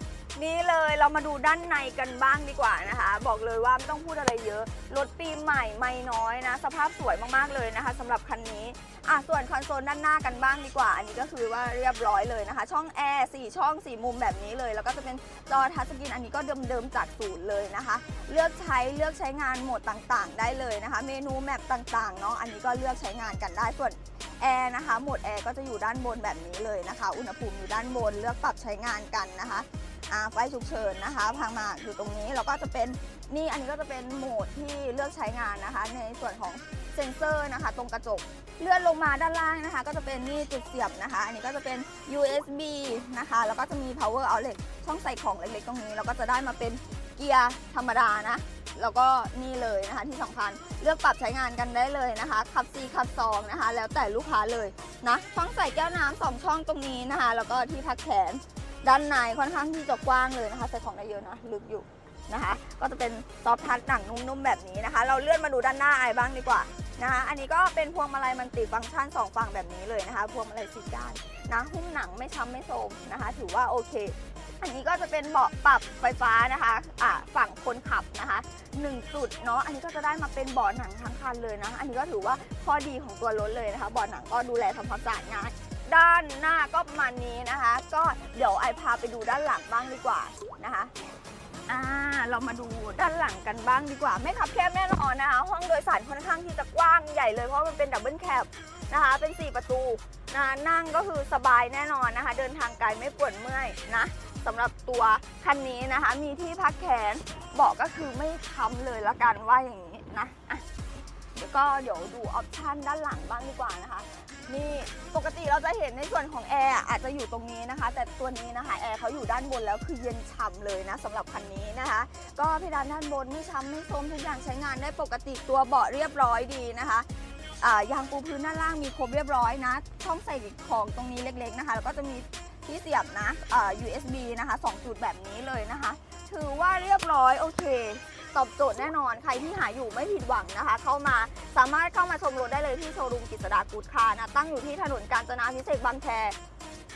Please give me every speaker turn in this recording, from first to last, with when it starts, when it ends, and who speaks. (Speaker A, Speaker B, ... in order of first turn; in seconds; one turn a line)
Speaker A: 0.3-90.9
Speaker A: 91.7-110.6
Speaker A: 111.3-127.1
Speaker A: 127.6-146.3